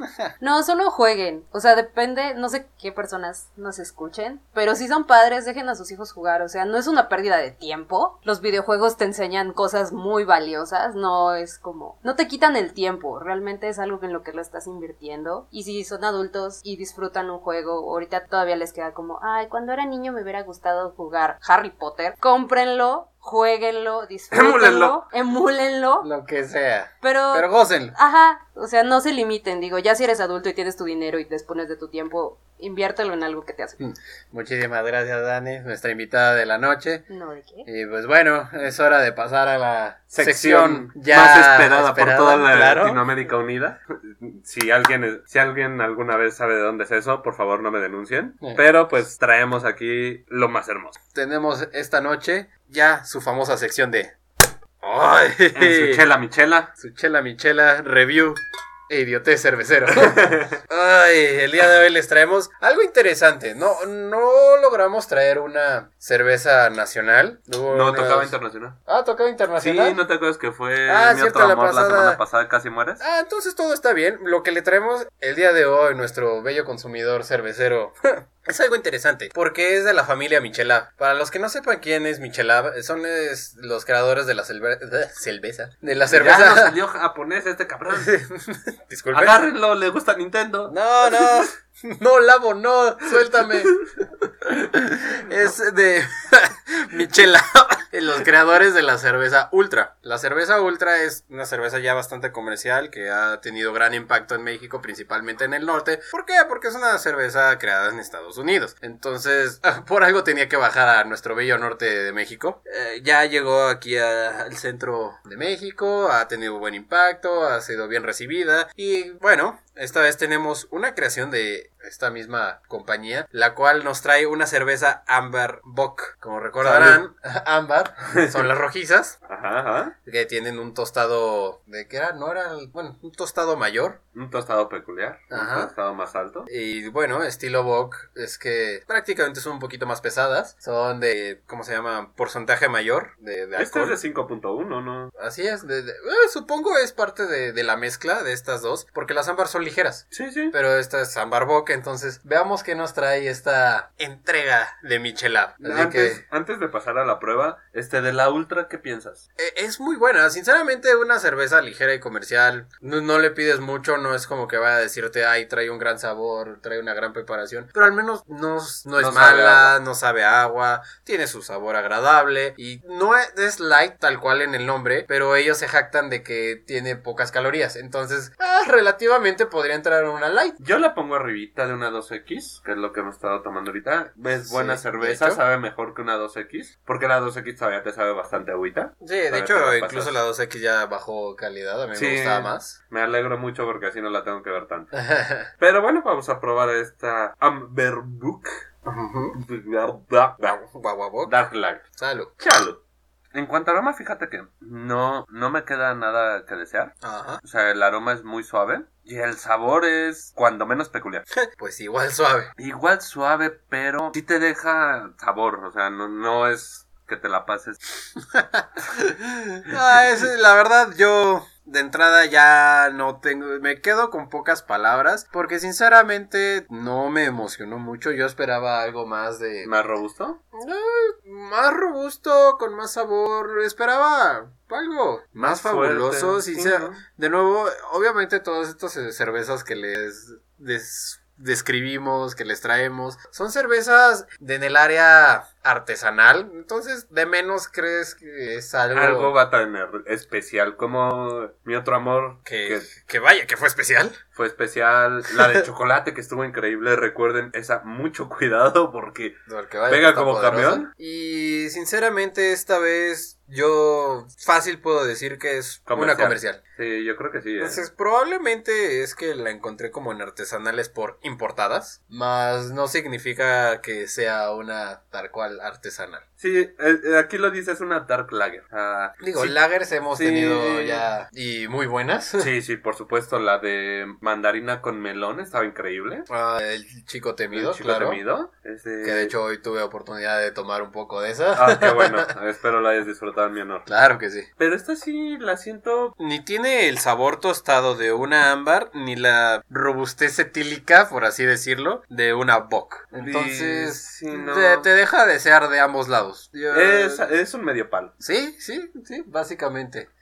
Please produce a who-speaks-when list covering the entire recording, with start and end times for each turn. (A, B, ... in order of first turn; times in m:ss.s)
0:00.4-0:26.1 A
0:24.3-0:25.0 B
0:26.0-0:28.0 C
0:27.0-0:33.8 A
0:33.8-0:37.0 C
0:37.1-0:37.7 A
0:37.7-0:43.0 C
0:40.1-0:51.0 B
0:51.1-0:54.2 C
0:54.8-0:56.0 C
0:55.6-0:56.7 B
0:56.8-1:08.4 C
0:59.9-1:00.6 B
1:07.7-1:08.8 B
1:08.9-1:10.0 C
1:09.6-1:13.0 B
1:10.9-1:12.2 C
1:13.0-1:26.8 C
1:26.1-1:28.1 B
1:27.9-1:29.4 C
1:29.1-1:31.4 B
1:30.7-1:33.8 C
1:34.4-2:09.2 C
2:06.6-2:07.0 B
2:08.2-2:08.5 B
2:09.3-2:10.0 B
2:10.0-2:14.0 C
2:14.1-2:16.5 B
2:15.3-2:15.7 C
2:16.5-2:24.0 C
2:23.6-2:25.1 B
2:25.2-2:36.2 C
2:30.1-2:30.5 B
2:35.6-2:39.2 B
2:39.4-3:00.6 C
2:49.0-2:49.7 B
3:00.6-3:10.2 B
3:04.5-3:05.4 C
3:09.0-3:12.8 C
3:11.9-3:14.9 B
3:14.9-3:15.5 C
3:15.6-3:18.6 B
3:18.9-3:19.4 C
3:19.3-3:20.6 B
3:20.5-3:21.3 C
3:21.3-3:21.8 B
3:21.9-3:22.3 C
3:22.4-3:22.8 B
3:23.3-3:31.3 B
3:27.0-3:27.4 C
3:31.4-3:32.5 C
3:32.6-3:37.8 B
3:38.3-3:49.7 C
3:49.6-3:50.4 B
3:50.5-4:09.3 C
3:55.5-3:57.0 B
4:08.9-4:12.9 B
4:12.4-4:14.2 C
4:14.4-4:20.9 B
4:15.4-4:15.6 C
4:19.5-4:26.6 C
4:25.9-4:27.8 B
4:27.6-4:36.2 C
4:36.4-4:39.6 B
4:39.2-4:42.5 C
4:40.1-4:41.1 B
4:42.4-4:46.3 B
4:46.3-4:48.2 C
4:47.5-4:49.3 B
4:49.0-4:52.3 C
4:51.6-4:53.9 B
4:53.9-4:54.5 C
4:54.6-4:56.2 B
4:56.2-5:07.3 C
5:03.1-5:04.9 B
5:06.7-5:08.1 B
5:08.2-5:10.1 C